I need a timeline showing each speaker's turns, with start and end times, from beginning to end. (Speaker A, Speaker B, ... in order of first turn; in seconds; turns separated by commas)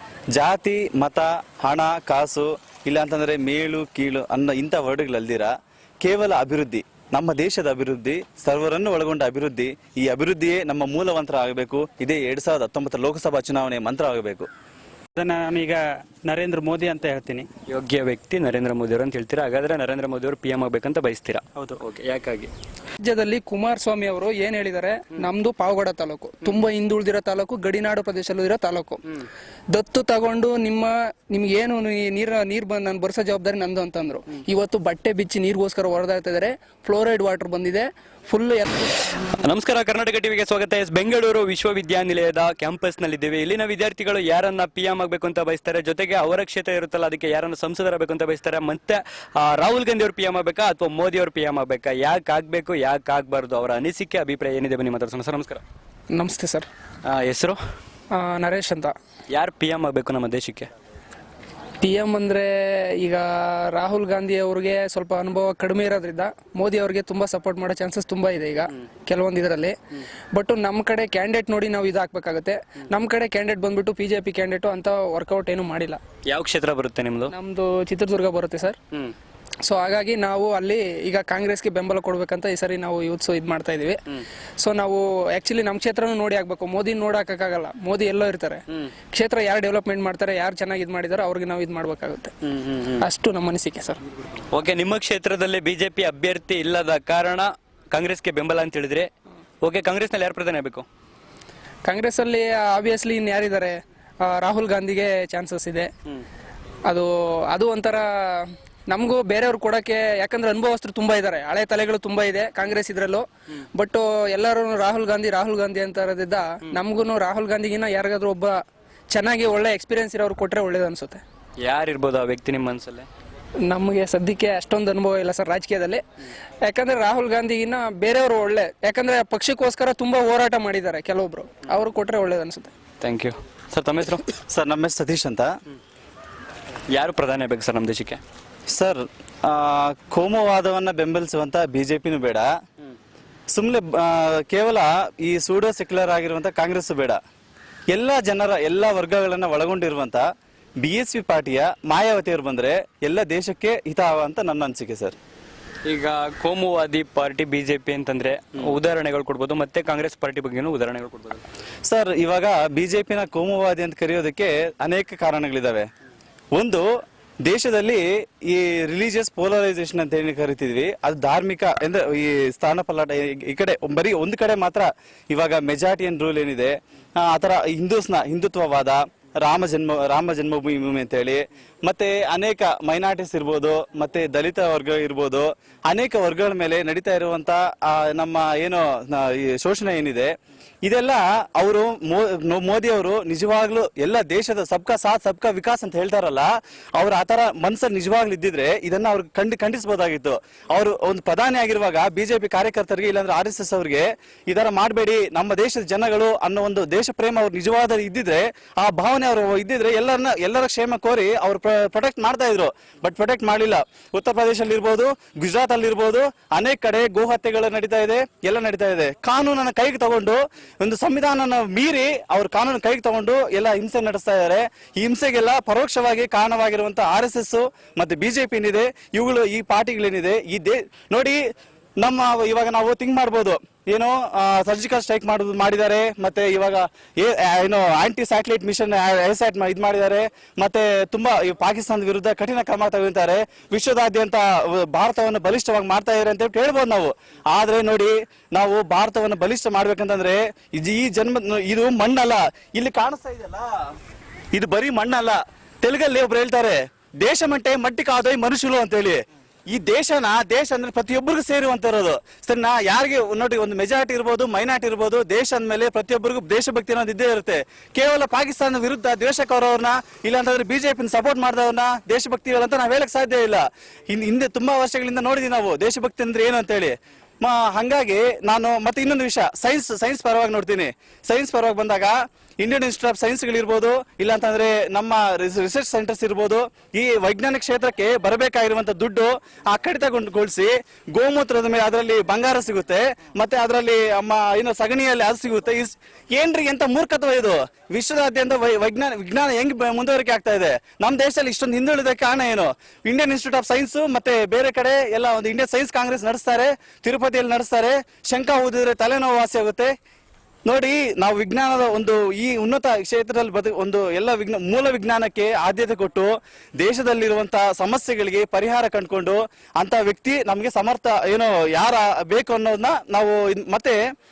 Speaker A: 0.3-5.5, Speaker A: 6.0-14.5, Speaker B: 15.2-17.5, Speaker C: 17.7-22.5, Speaker D: 23.0-29.0, Speaker D: 29.7-38.7, Speaker C: 39.4-55.6, Speaker D: 56.1-56.7, Speaker C: 57.0-57.6, Speaker D: 58.1-58.9, Speaker C: 59.3-60.7, Speaker D: 61.8-69.8, Speaker D: 70.3-76.0, Speaker C: 76.3-77.3, Speaker D: 77.3-78.8, Speaker D: 79.6-84.0, Speaker D: 84.6-92.3, Speaker C: 92.5-93.0, Speaker D: 93.0-94.0, Speaker C: 94.5-99.1, Speaker C: 99.6-100.8, Speaker D: 101.8-105.9, Speaker D: 106.9-118.6, Speaker D: 119.1-121.2, Speaker C: 121.6-123.1, Speaker D: 123.7-126.0, Speaker D: 126.6-132.7, Speaker C: 133.0-134.2, Speaker A: 134.5-135.5, Speaker C: 136.9-138.2, Speaker A: 138.7-142.5, Speaker A: 143.5-147.2, Speaker A: 147.9-150.2, Speaker A: 150.8-155.2, Speaker C: 155.8-161.4, Speaker A: 161.9-165.9, Speaker A: 166.5-166.9, Speaker A: 167.4-231.4, Speaker A: 232.0-253.7, Speaker A: 254.5-259.2, Speaker A: 259.7-309.9, Speaker A: 310.6-324.0